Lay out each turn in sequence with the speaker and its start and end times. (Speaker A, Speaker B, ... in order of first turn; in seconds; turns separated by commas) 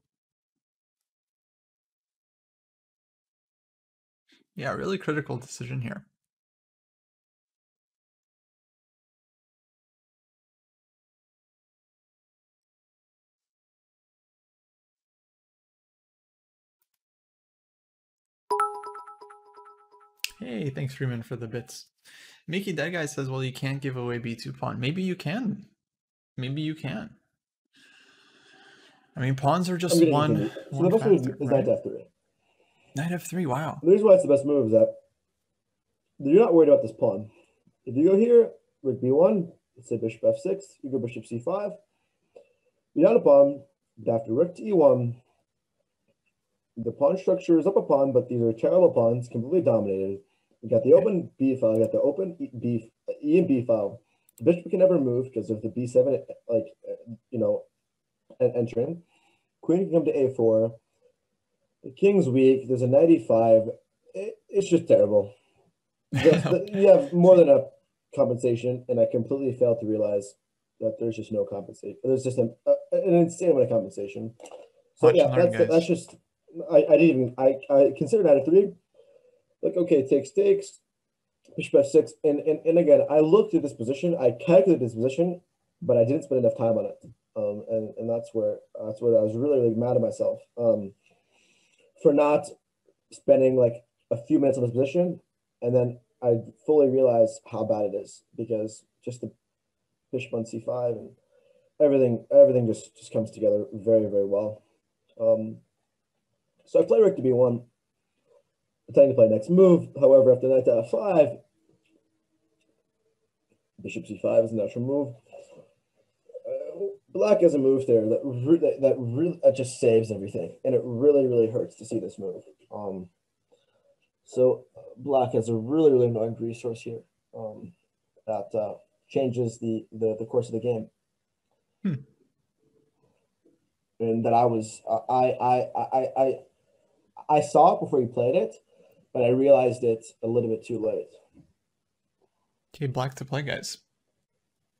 Speaker A: 4.5-6.0, Speaker A: 20.4-21.9, Speaker A: 22.5-25.7, Speaker A: 26.4-27.2, Speaker A: 29.1-31.7, Speaker B: 29.9-32.1, Speaker A: 33.0-33.8, Speaker B: 33.8-35.0, Speaker B: 36.2-37.3, Speaker B: 37.9-41.8, Speaker B: 42.9-45.2, Speaker B: 46.8-57.7, Speaker B: 58.4-59.0, Speaker B: 59.6-60.8, Speaker B: 61.8-65.3, Speaker B: 66.1-74.4, Speaker A: 66.2-66.8, Speaker B: 75.0-78.8, Speaker A: 75.0-75.9, Speaker B: 79.6-80.8, Speaker B: 81.6-90.9, Speaker B: 92.0-92.5, Speaker B: 93.1-99.3, Speaker B: 100.1-101.2, Speaker B: 101.8-104.6, Speaker B: 105.2-105.6, Speaker B: 106.7-107.7, Speaker B: 108.9-111.4, Speaker B: 113.8-115.2, Speaker B: 116.5-123.1, Speaker B: 124.3-127.7, Speaker B: 128.3-130.9, Speaker B: 134.0-136.4, Speaker B: 137.3-138.6, Speaker B: 139.1-141.2, Speaker A: 142.7-143.8